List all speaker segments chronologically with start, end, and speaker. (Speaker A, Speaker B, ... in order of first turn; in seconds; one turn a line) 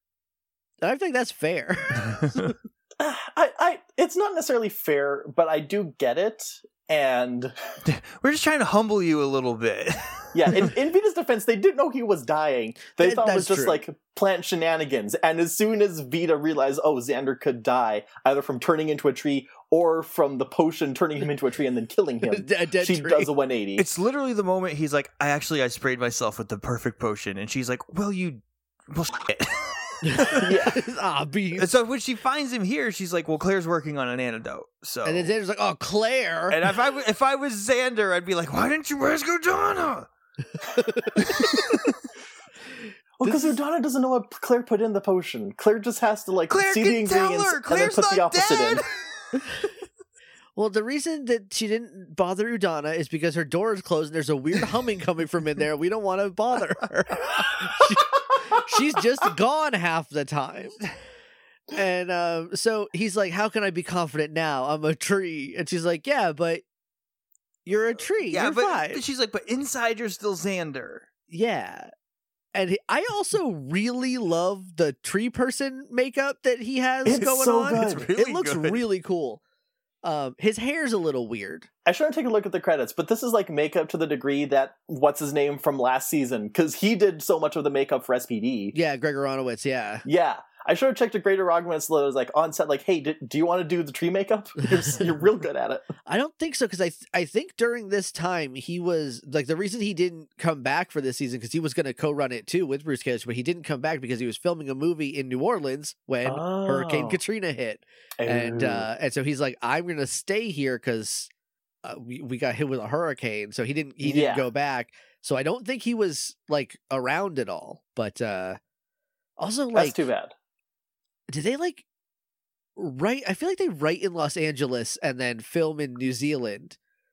Speaker A: 0.8-2.5
Speaker B: 2.1-2.5
Speaker C: 3.0-7.5
Speaker B: 7.8-10.7
Speaker C: 10.3-23.8
Speaker A: 13.0-13.8
Speaker A: 22.2-23.3
Speaker B: 23.8-30.5
Speaker A: 30.0-31.7
Speaker C: 30.3-30.9
Speaker B: 31.6-35.3
Speaker A: 35.0-36.7
Speaker B: 36.5-40.1
Speaker A: 40.8-41.6
Speaker B: 41.1-42.0
Speaker C: 43.2-48.8
Speaker A: 43.2-43.5
Speaker B: 46.5-49.2
Speaker A: 49.3-49.7
Speaker A: 50.5-60.8
Speaker A: 61.7-66.6
Speaker A: 67.7-69.0
Speaker B: 68.2-71.0
Speaker A: 71.3-71.9
Speaker A: 72.5-79.4
Speaker C: 77.0-78.1
Speaker B: 77.7-78.8
Speaker A: 80.0-81.7
Speaker C: 81.8-88.7
Speaker A: 88.7-90.0
Speaker C: 90.0-95.8
Speaker A: 96.0-111.3
Speaker C: 106.2-107.2
Speaker C: 108.2-108.9
Speaker A: 111.8-118.6
Speaker C: 114.0-114.4
Speaker A: 119.4-120.0
Speaker C: 119.7-120.3
Speaker A: 121.3-121.8
Speaker A: 122.8-126.8